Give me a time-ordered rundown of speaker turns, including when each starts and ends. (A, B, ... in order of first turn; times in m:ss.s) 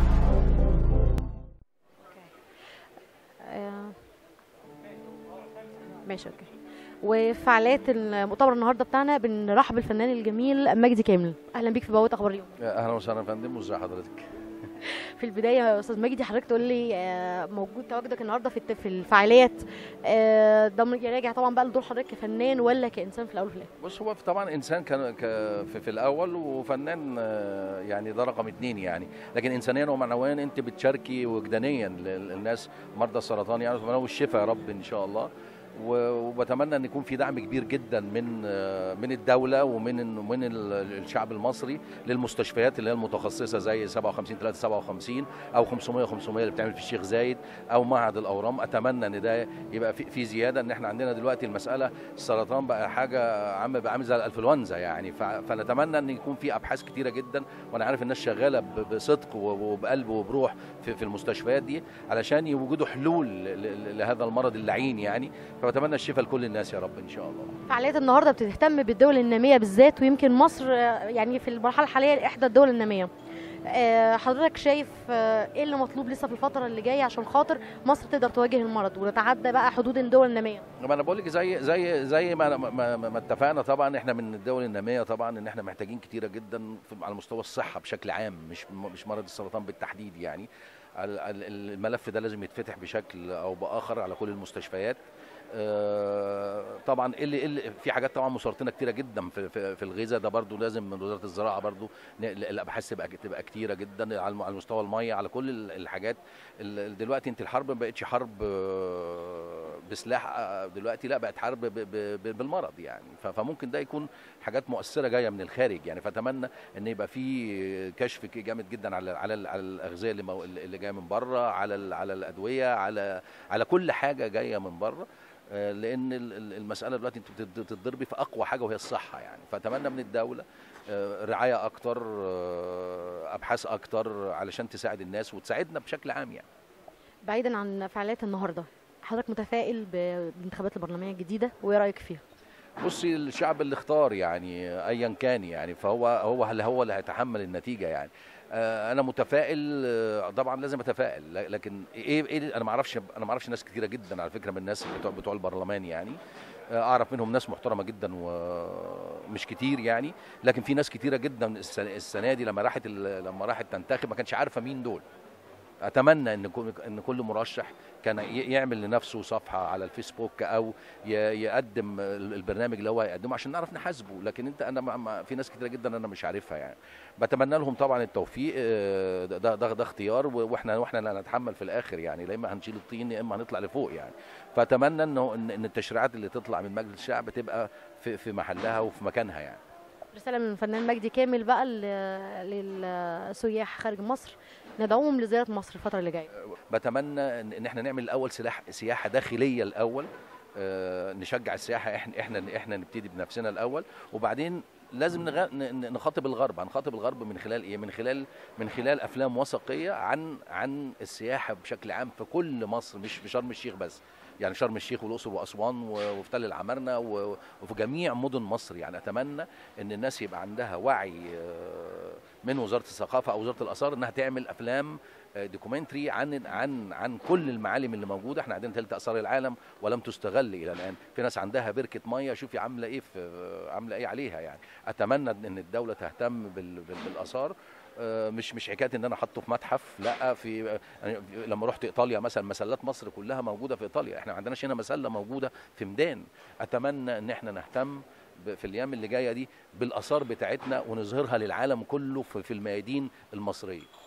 0:03.4-0:04.0 A
0:06.0-0:06.5 A
0:07.0-0:12.5 A
0:12.6-0:14.3 B
0:14.8-0:23.7 A
0:23.8-1:07.5 B
1:07.7-1:13.1 A
1:13.7-1:20.6 A
1:20.8-1:35.0 B
1:35.5-2:16.4 B
2:17.2-2:22.2 A
2:22.8-2:36.2 B
2:36.7-2:45.0 B
2:45.8-3:09.6 B
3:10.1-3:16.3 A
3:16.6-4:13.9 B